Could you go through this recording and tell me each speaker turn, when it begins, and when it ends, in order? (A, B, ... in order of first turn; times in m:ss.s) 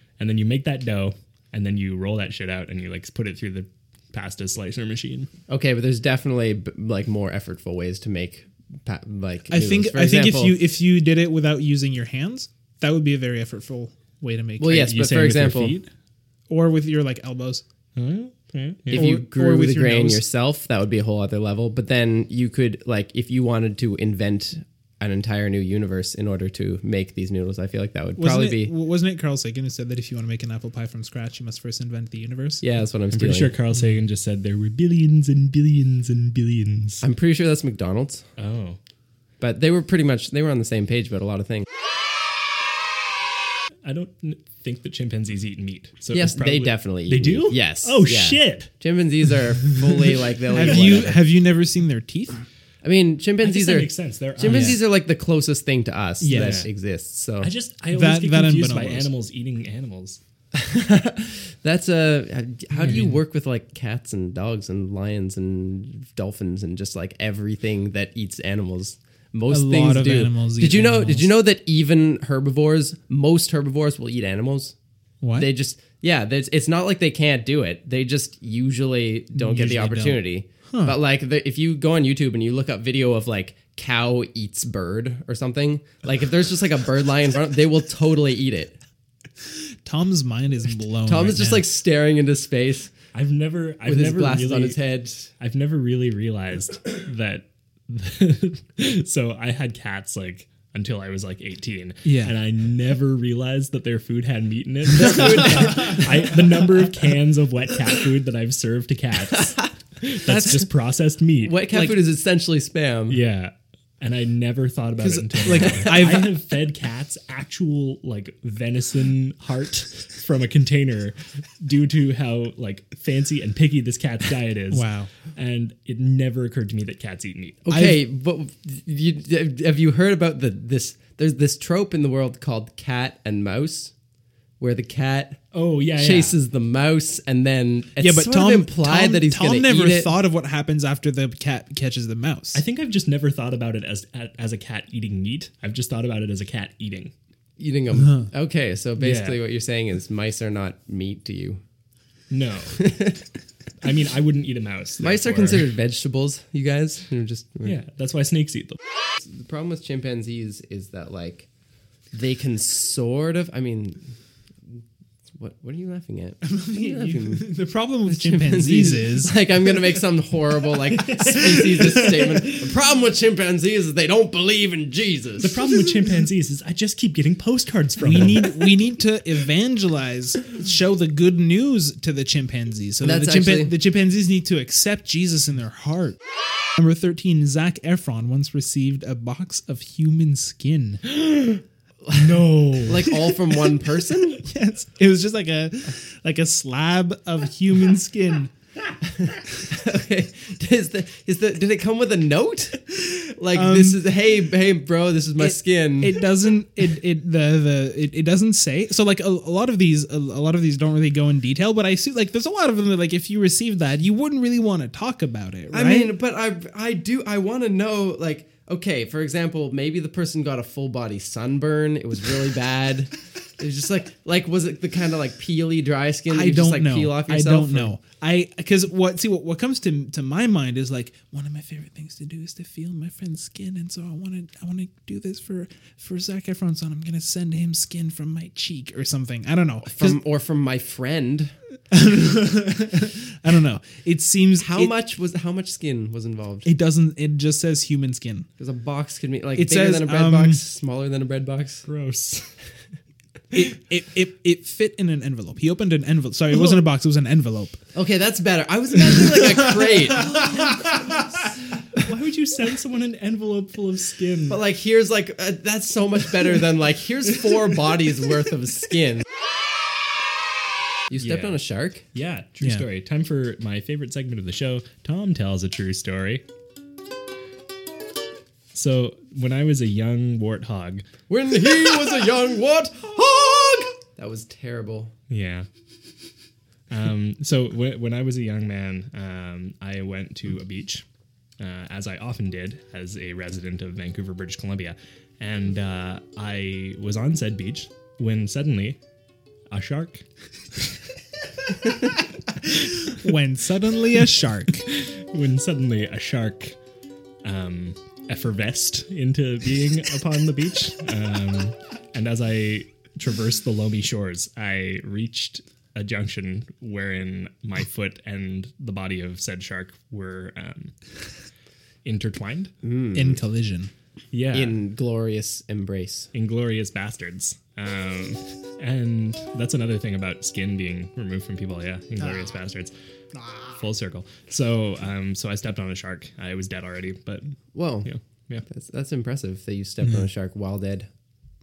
0:00.2-0:05.3 A
0:05.5-0:10.6 B
0:09.5-0:14.9 C
0:14.6-0:15.8 B
0:14.7-0:15.9 A
0:16.5-0:17.6 C
0:18.0-0:19.1 A
0:18.9-0:20.2 C
0:18.9-0:28.7 B
0:28.2-0:32.6 C
0:32.6-0:33.5 B
0:33.1-0:37.0 A
0:37.0-0:38.2 B
0:38.4-0:38.8 A
0:39.4-0:41.6 B
0:43.8-0:48.7 A
0:46.1-0:51.2 B
0:50.5-0:52.4 C
0:50.7-0:51.1 A
0:52.8-0:57.5 B
0:53.4-0:54.8 A
0:54.4-0:54.8 C
0:56.2-0:56.7 C
0:56.3-0:56.7 A
0:57.4-1:00.2 A
0:57.9-0:59.1 C
1:00.5-1:14.7 B
1:02.7-1:03.2 C
1:09.5-1:11.3 C
1:15.2-1:15.5 C
1:15.4-1:28.7 B
1:19.3-1:21.0 C
1:29.8-1:31.7 C
1:31.0-1:32.9 B
1:33.1-1:34.8 A
1:33.8-1:35.3 B
1:35.4-1:51.6 A
1:42.0-1:42.3 C
1:44.9-1:46.2 B
1:49.3-1:49.7 B
1:50.3-1:50.6 B
1:51.4-1:53.2 B
1:53.1-2:07.6 A
1:55.0-1:56.3 C
2:04.7-2:05.1 C
2:07.6-2:13.9 B
2:07.7-2:08.0 C
2:14.6-2:15.4 B
2:15.5-2:16.4 A
2:15.9-2:20.1 B
2:18.0-2:22.6 C
2:22.5-2:27.1 A
2:27.6-2:31.6 B
2:28.0-2:28.3 C
2:29.0-2:29.4 A
2:32.3-2:32.9 A
2:32.8-2:33.2 B
2:33.8-2:35.7 A
2:35.0-2:37.8 B
2:37.6-2:38.8 A
2:39.2-2:41.5 B
2:42.1-2:44.1 B
2:45.3-2:47.5 B
2:46.4-2:49.4 C
2:48.1-2:55.6 B
2:51.3-2:52.1 A
2:55.4-2:58.5 A
2:58.0-3:06.2 C
3:03.0-3:03.7 B
3:06.8-3:11.0 C
3:12.0-3:14.4 B
3:12.1-3:13.0 A
3:14.4-3:18.5 C
3:19.2-3:26.3 B
3:23.5-3:24.0 C
3:25.4-3:36.1 C
3:35.7-3:47.9 B
3:46.3-4:00.2 C
3:59.8-4:01.5 B
4:01.9-4:04.9 C
4:04.6-4:06.7 B
4:06.6-4:08.5 C
4:08.6-4:11.8 B
4:09.5-4:10.6 C
4:11.8-4:12.6 A
4:13.5-4:17.8 C
4:17.9-4:20.7 B
4:22.0-4:24.6 A
4:24.5-4:29.2 B
4:31.1-4:32.0 B
4:31.2-4:31.6 A
4:32.1-4:36.4 A
4:32.6-4:32.8 C
4:38.7-4:41.0 A
4:41.3-4:45.1 B
4:45.3-4:45.6 A
4:46.9-4:51.0 A
4:51.6-4:59.0 A
4:59.7-5:00.2 A
5:03.1-5:04.8 C
5:04.9-5:06.8 A
5:07.4-5:20.9 A
5:22.0-5:22.7 A
5:22.8-5:23.4 B
5:23.1-5:23.9 C
5:24.3-5:24.8 A
5:24.5-5:26.3 B
5:26.3-5:32.9 A
5:32.2-5:32.5 C
5:33.3-5:33.8 C
5:33.8-5:38.6 A
5:37.7-5:38.1 B
5:38.7-5:41.1 B